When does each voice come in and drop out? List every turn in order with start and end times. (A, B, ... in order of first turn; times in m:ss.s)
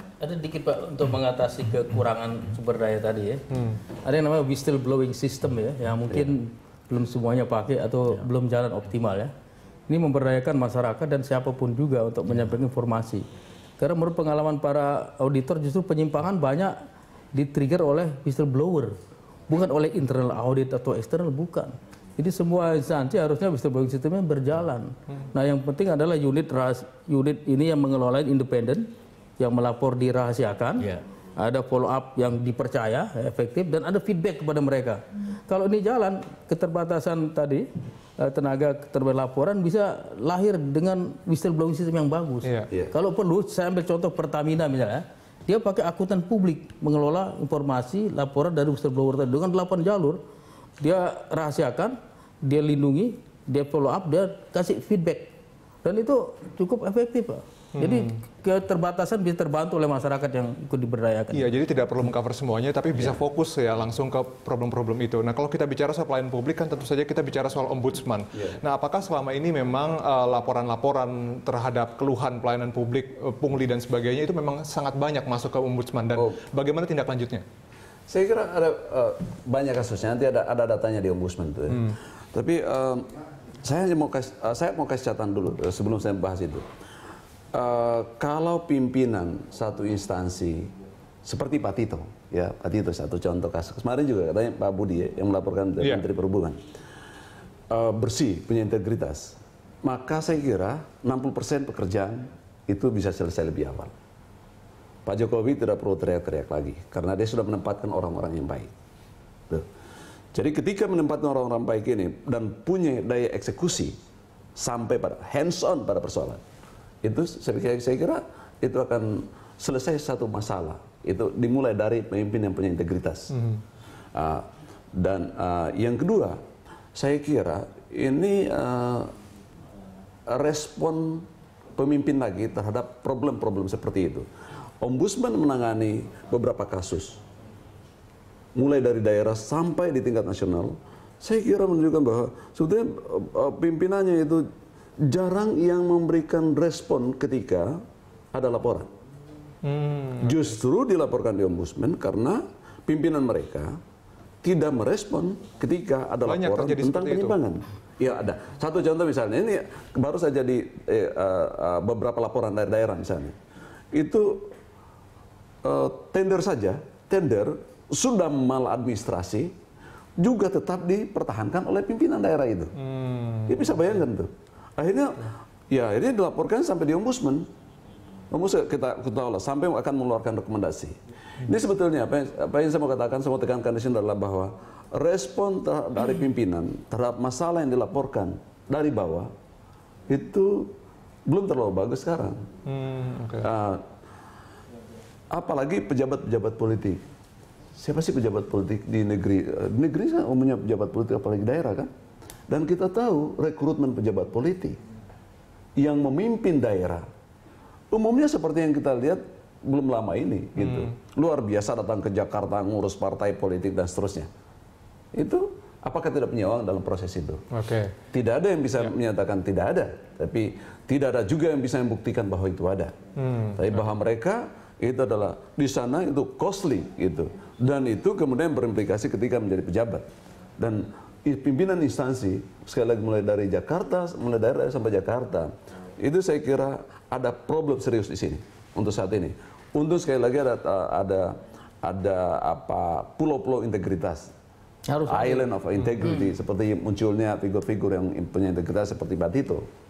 0:00.2-0:03.4 A
0:03.5-0:03.8 B
0:04.0-0:09.3 A
0:09.9-0:13.2 A
0:13.8-0:16.8 A
0:17.3-0:18.9 A
0:19.5-0:28.9 A
0:29.4-0:37.6 A
0:38.2-0:50.2 A
0:42.4-0:42.7 B
0:50.8-0:55.3 A
0:55.8-1:01.5 A
0:57.8-0:58.1 B
1:01.3-1:17.4 B
1:18.1-1:23.1 C
1:21.7-1:22.0 B
1:23.6-1:26.6 C
1:27.5-1:30.7 C
1:31.2-1:36.6 C
1:37.7-1:43.9 C
1:45.1-1:48.7 C
1:50.3-1:54.0 C
1:54.6-1:56.4 C
1:57.0-2:03.3 C
2:03.3-2:03.6 B
2:04.2-2:06.4 C
2:07.0-2:09.1 C
2:10.3-2:11.2 C
2:11.8-2:14.3 C
2:14.8-2:17.2 C
2:18.6-2:24.4 C
2:25.0-2:27.8 C
2:28.3-2:28.9 C
2:29.6-2:30.5 B
2:30.2-2:33.8 C
2:34.4-2:43.4 C
2:36.2-2:37.4 B
2:43.9-2:44.5 C
2:45.6-2:49.5 C
2:50.2-2:52.7 C
2:52.8-2:53.9 B
2:53.5-2:57.4 C
2:58.3-3:09.3 C
3:10.1-3:10.7 C
3:11.3-3:12.4 C
3:12.7-3:13.5 B
3:13.4-3:13.8 C
3:15.3-3:17.0 C
3:17.8-3:21.9 C
3:22.5-3:24.8 C
3:25.8-3:27.1 C
3:27.9-3:34.3 C
3:30.6-3:30.9 B
3:35.2-3:37.4 C
3:37.5-3:37.9 B
3:38.1-3:43.0 C
3:43.2-3:43.8 B
3:43.6-3:50.1 C
3:50.6-4:04.3 C
4:04.9-4:05.5 A
4:05.1-4:09.6 C